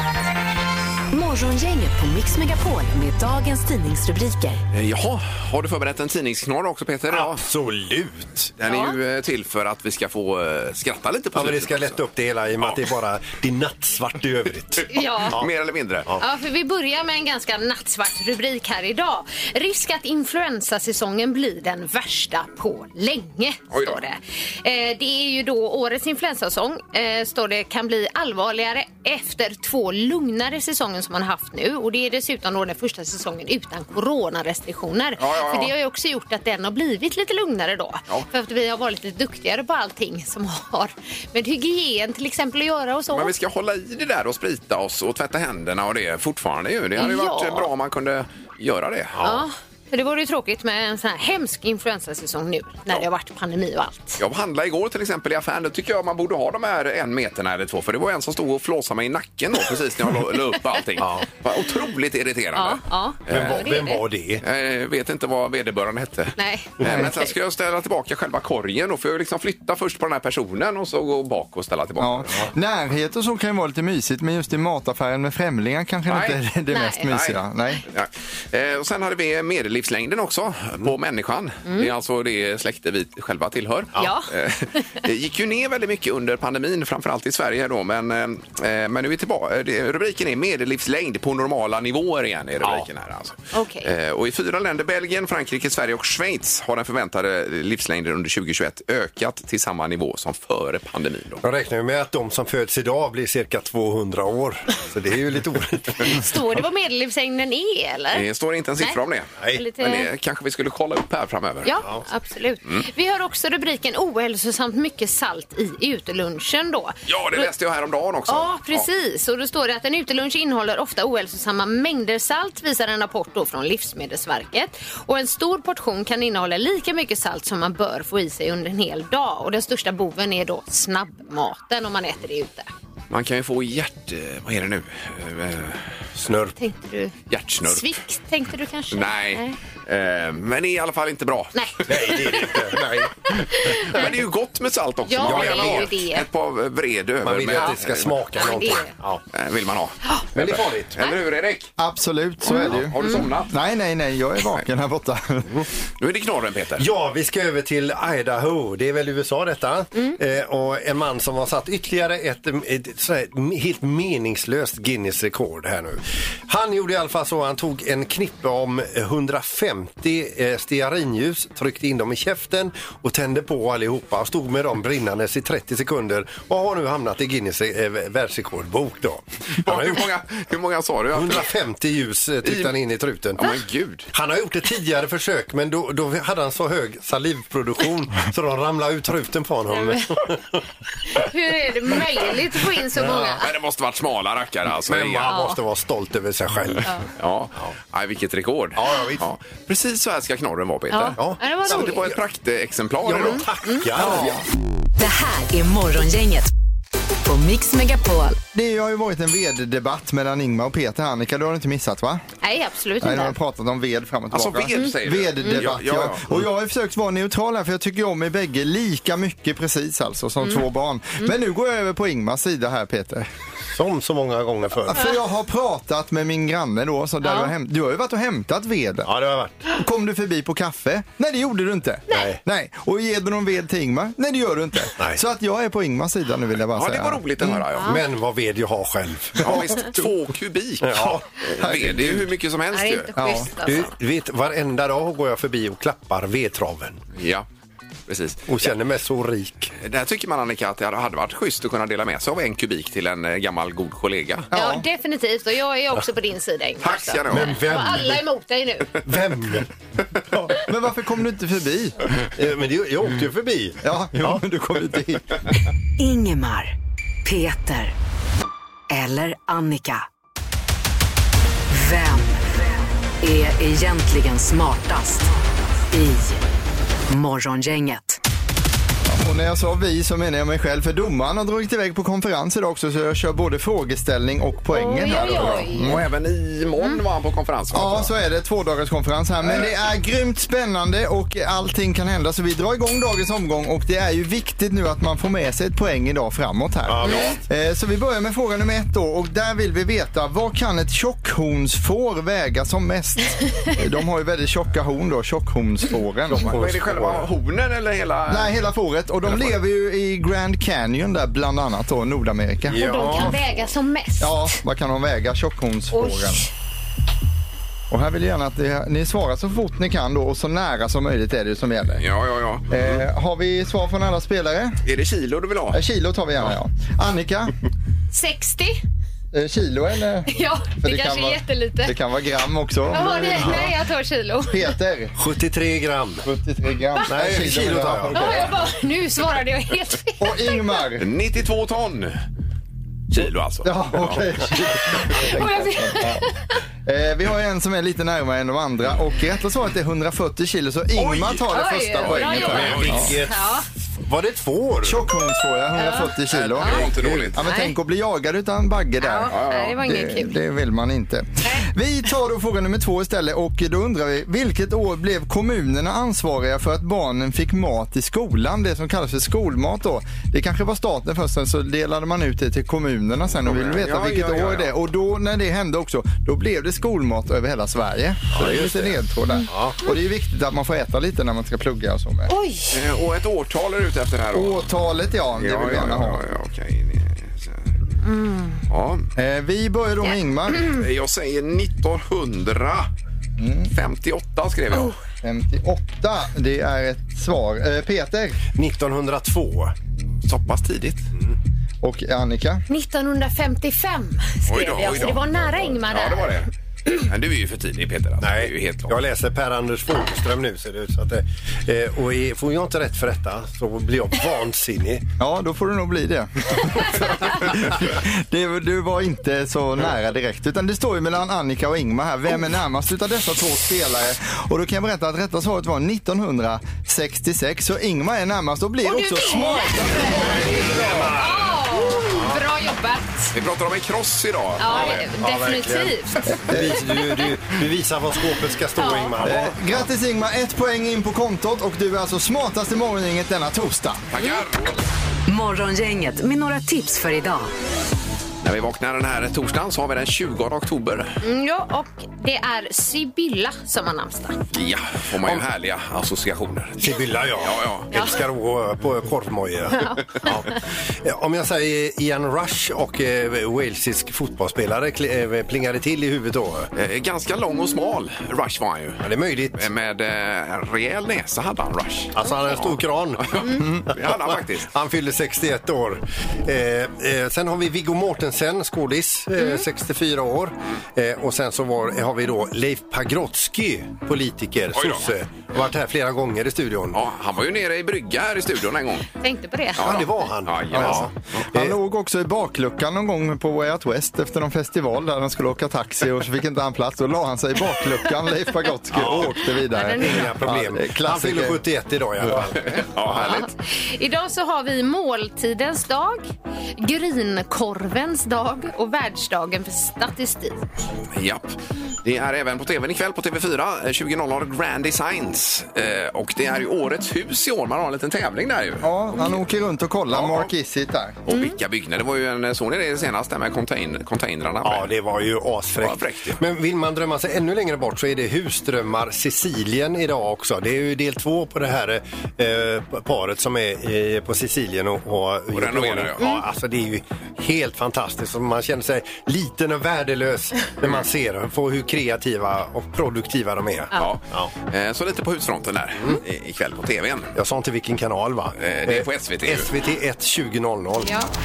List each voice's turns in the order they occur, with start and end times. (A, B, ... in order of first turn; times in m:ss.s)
0:01.2-0:04.6 A
0:04.7-0:07.4 B
0:07.1-0:08.5 C
0:08.6-0:12.9 B
0:08.7-0:09.0 D
0:11.3-0:15.5 C
0:14.8-0:16.1 B
0:14.9-0:15.4 D
0:16.2-0:43.3 D
0:23.7-0:24.0 B
0:35.2-0:35.7 B
0:43.1-0:49.2 B
0:47.0-0:47.7 D
0:49.2-0:49.4 C
0:49.2-0:54.2 D
0:54.2-1:03.8 B
1:01.0-1:01.3 C
1:02.6-1:04.0 D
1:03.3-1:04.4 C
1:04.4-1:12.5 B
1:06.4-1:07.3 D
1:12.0-1:17.8 E
1:16.1-1:16.4 B
1:16.7-1:17.1 D
1:17.1-1:41.4 B
1:21.7-1:21.9 D
1:24.0-1:24.3 D
1:32.6-1:32.9 C
1:33.5-1:33.9 D
1:41.4-1:46.2 C
1:46.0-1:48.3 D
1:48.1-1:51.7 B
1:49.5-1:50.1 D
1:51.6-1:57.5 D
1:57.1-1:58.9 B
1:58.3-2:12.7 D
2:13.1-2:15.8 B
2:16.2-2:16.6 C
2:16.6-2:19.6 D
2:17.3-2:18.0 B
2:18.9-2:22.8 B
2:21.6-2:24.1 D
2:21.9-2:23.2 C
2:23.7-2:28.3 B
2:25.1-2:26.3 D
2:25.2-2:25.9 C
2:27.2-2:29.2 C
2:28.4-2:28.9 D
2:29.3-2:31.7 B
2:30.4-2:31.0 C
2:31.8-2:35.7 E
2:32.4-2:33.6 B
2:32.5-2:33.3 D
2:36.0-2:36.9 B
2:36.8-3:00.1 C
2:59.6-3:01.6 B
3:01.1-3:03.5 C
3:02.4-3:02.8 B
3:03.4-3:04.1 B
3:04.1-3:10.6 C
3:09.8-3:10.0 D
3:11.1-3:13.5 D
3:13.0-3:13.4 C
3:13.4-3:15.4 B
3:14.7-3:17.0 C
3:15.3-3:15.6 D
3:17.2-3:23.5 B
3:18.8-3:19.3 C
3:20.9-3:22.2 D
3:21.2-3:22.1 C
3:23.0-3:24.2 C
3:23.1-3:23.9 D
3:24.0-3:24.4 E
3:25.0-3:26.4 A
3:27.3-3:28.3 A
3:28.5-3:32.2 E
3:32.4-3:33.3 D
3:33.0-3:43.3 E
3:34.3-3:36.2 B
3:34.8-3:35.7 D
3:40.4-3:40.6 D
3:43.7-3:45.1 C
3:44.9-3:49.1 E
3:47.2-3:47.5 D
3:49.0-3:49.7 C
3:49.7-3:57.6 E
3:52.1-3:52.4 C
3:56.7-3:58.0 B
3:57.8-3:58.0 D
3:57.8-3:59.6 C
3:59.4-4:03.1 B
3:59.4-4:00.1 E
4:00.8-4:01.3 C
4:01.6-4:02.3 E
4:02.7-4:04.0 D
4:03.2-4:03.5 E
4:03.6-4:07.0 C
4:07.2-4:07.5 B
4:08.1-4:08.8 B
4:08.5-4:09.7 C
4:09.8-4:14.5 B
4:14.5-4:14.8 E
4:14.5-4:18.9 D
4:16.8-4:17.6 B
4:17.3-4:18.2 C
4:19.0-4:19.7 C
4:20.3-4:22.0 E
4:22.2-4:25.2 C
4:23.8-4:25.4 E
4:26.0-4:26.7 A
4:27.3-4:27.9 A
4:28.9-4:30.0 A
4:31.7-4:32.2 A
4:33.2-4:35.2 A
4:35.9-4:36.3 A
4:37.1-4:38.0 A
4:39.0-4:46.1 E
4:44.7-4:45.9 D
4:45.8-4:48.1 B
4:47.7-5:06.5 E
4:56.9-4:57.3 C
4:57.0-4:57.4 D
4:57.1-4:57.4 B
5:06.3-5:07.3 C
5:06.3-5:08.6 B
5:08.3-5:13.4 E
5:09.2-5:09.5 B
5:12.6-5:13.4 C
5:12.7-5:14.6 D
5:14.2-5:16.5 E
5:15.9-5:16.5 D
5:17.9-5:22.0 E
5:22.0-5:22.7 B
5:22.7-5:24.8 E
5:22.8-5:23.0 C
5:24.8-5:25.8 B
5:25.7-5:27.5 E
5:28.1-5:28.8 D
5:29.3-5:33.8 E
5:30.3-5:31.9 D
5:32.9-5:34.7 D
5:33.3-5:33.6 C
5:34.5-5:35.2 E
5:35.2-5:36.3 C
5:36.2-5:38.5 E
5:37.0-5:38.2 C
5:38.1-5:40.7 D
5:40.2-5:41.1 E
5:41.0-5:42.1 B
5:43.1-5:44.3 B
5:43.6-5:46.2 E
5:44.9-5:46.5 D
5:46.9-5:53.2 E
5:51.0-5:53.1 B
5:51.5-5:53.7 D
5:52.5-5:55.0 C
5:54.8-6:22.3 E
5:55.7-5:57.8 D
5:56.3-5:57.4 B
5:59.0-6:00.4 D
5:59.3-5:59.8 B
6:13.4-6:14.7 B
6:18.4-6:19.0 B
6:19.5-6:19.8 C
6:22.3-6:22.8 D
6:22.7-6:24.7 B
6:24.3-6:26.2 E
6:25.3-6:27.7 B
6:28.0-6:28.6 D
6:28.7-6:29.1 B
6:29.2-6:30.7 E
6:30.6-6:32.9 B
6:33.4-6:33.7 E
6:33.7-6:35.0 B
6:35.2-6:38.4 E
6:38.6-6:39.7 C
6:40.2-6:41.1 B
6:41.8-6:42.6 E
6:42.7-6:46.4 D
6:44.5-6:45.2 B
6:45.9-6:49.0 B
6:48.2-6:55.1 C
6:55.2-7:10.1 E
7:08.8-7:13.3 D
7:10.3-7:12.4 C
7:13.3-7:15.1 B
7:14.6-7:17.1 D
7:14.7-7:19.9 C
7:16.3-7:16.9 E
7:18.8-7:19.2 D
7:19.2-7:24.0 E
7:24.1-7:24.8 B
7:25.3-7:27.5 A
7:28.4-7:31.2 B
7:31.2-7:34.4 D
7:34.5-7:38.0 B
7:36.8-7:46.7 C
7:39.8-7:40.2 D
7:46.7-7:54.7 B
7:49.0-7:49.7 C
7:52.2-7:53.4 C
7:53.5-7:53.9 E
7:53.9-8:07.0 C
8:04.7-8:05.2 B
8:06.9-8:09.1 B
8:09.2-8:10.1 D
8:09.8-8:11.1 B
8:09.8-8:11.8 C
8:10.7-8:21.6 E
8:18.9-8:23.4 C
8:19.7-8:20.4 D
8:22.6-8:23.5 B
8:23.2-8:30.6 D
8:31.1-8:39.4 B
8:38.8-8:41.2 E
8:40.1-8:40.5 B
8:41.3-8:44.9 B
8:41.3-8:41.6 D
8:44.6-9:04.5 C
8:45.8-8:46.4 B
8:55.5-8:56.3 B
9:03.9-9:07.4 B
9:07.4-9:11.2 C
9:08.6-9:09.7 B
9:11.0-9:11.3 D